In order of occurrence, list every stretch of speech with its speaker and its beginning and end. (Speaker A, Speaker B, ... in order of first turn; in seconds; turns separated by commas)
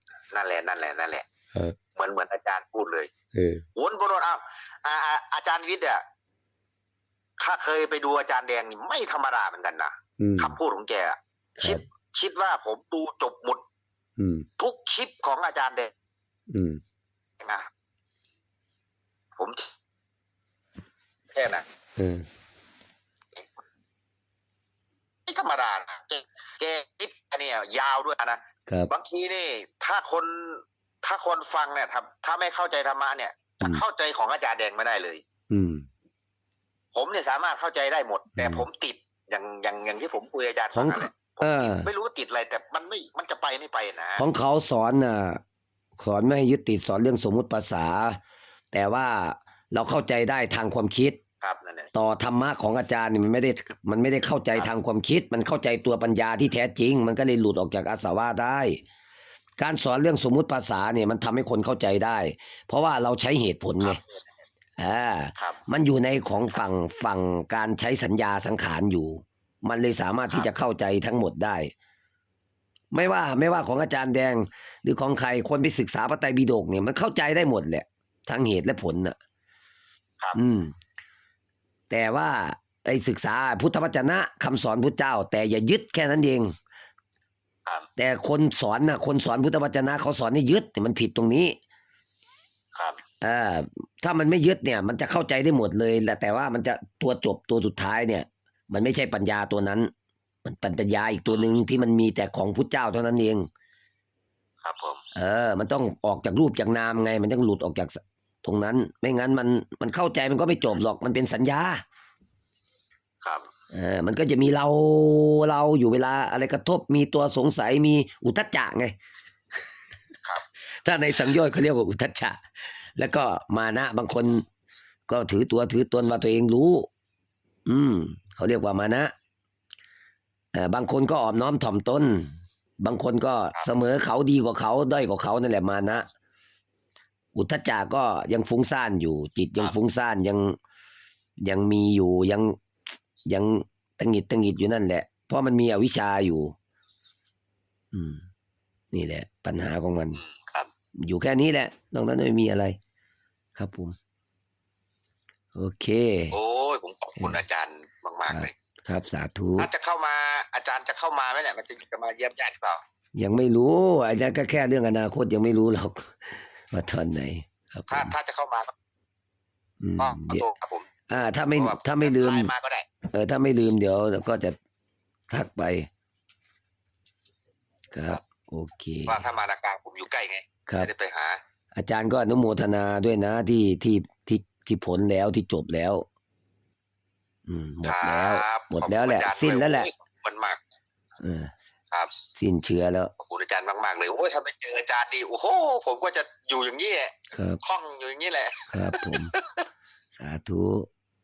Speaker A: 0.3-1.3, Speaker A: 1.9-3.1, Speaker B: 3.3-3.6, Speaker A: 3.8-6.0, Speaker A: 7.4-13.6, Speaker B: 10.2-10.6, Speaker B: 11.6-11.8, Speaker B: 14.2-14.5, Speaker A: 14.6-15.9, Speaker B: 16.5-16.8, Speaker A: 17.4-17.7, Speaker A: 19.4-19.7, Speaker A: 21.3-21.6, Speaker B: 22.0-22.3, Speaker A: 25.3-35.2, Speaker B: 35.5-35.9, Speaker A: 36.9-44.3, Speaker B: 38.4-38.6, Speaker B: 40.7-41.9, Speaker B: 44.2-45.4, Speaker B: 46.0-48.2, Speaker B: 48.7-51.2, Speaker A: 51.4-51.9, Speaker B: 51.9-58.8, Speaker B: 59.6-64.0, Speaker A: 63.8-64.4, Speaker B: 64.8-71.7, Speaker B: 72.9-79.2, Speaker B: 80.3-80.8, Speaker B: 81.9-86.5, Speaker B: 88.0-91.6, Speaker B: 93.2-99.9, Speaker B: 100.4-103.5, Speaker A: 101.3-101.5, Speaker A: 104.6-105.0, Speaker B: 105.2-111.8, Speaker A: 113.2-113.5, Speaker B: 113.7-119.0, Speaker B: 120.8-122.4, Speaker B: 123.0-124.5, Speaker B: 125.1-126.9, Speaker B: 127.7-129.1, Speaker B: 130.6-136.1, Speaker B: 137.3-140.6, Speaker B: 141.4-142.6, Speaker B: 143.2-146.5, Speaker B: 147.9-148.3, Speaker B: 148.9-150.2, Speaker A: 150.2-150.7, Speaker B: 151.0-152.8, Speaker B: 153.6-154.0, Speaker B: 155.6-156.3, Speaker A: 156.3-158.5, Speaker B: 158.3-159.7, Speaker A: 159.6-162.8, Speaker B: 163.2-168.1, Speaker A: 167.9-168.7, Speaker B: 169.8-170.5, Speaker A: 170.0-170.9, Speaker B: 171.1-172.5, Speaker A: 171.6-172.9, Speaker B: 173.1-174.6, Speaker B: 175.3-175.9, Speaker B: 177.9-179.2, Speaker A: 179.1-181.4, Speaker B: 181.8-186.1, Speaker B: 187.5-189.9, Speaker A: 187.8-190.6, Speaker B: 191.2-191.6, Speaker B: 192.4-193.1, Speaker A: 193.2-199.7, Speaker B: 197.3-197.6, Speaker B: 198.7-199.3, Speaker B: 200.2-200.9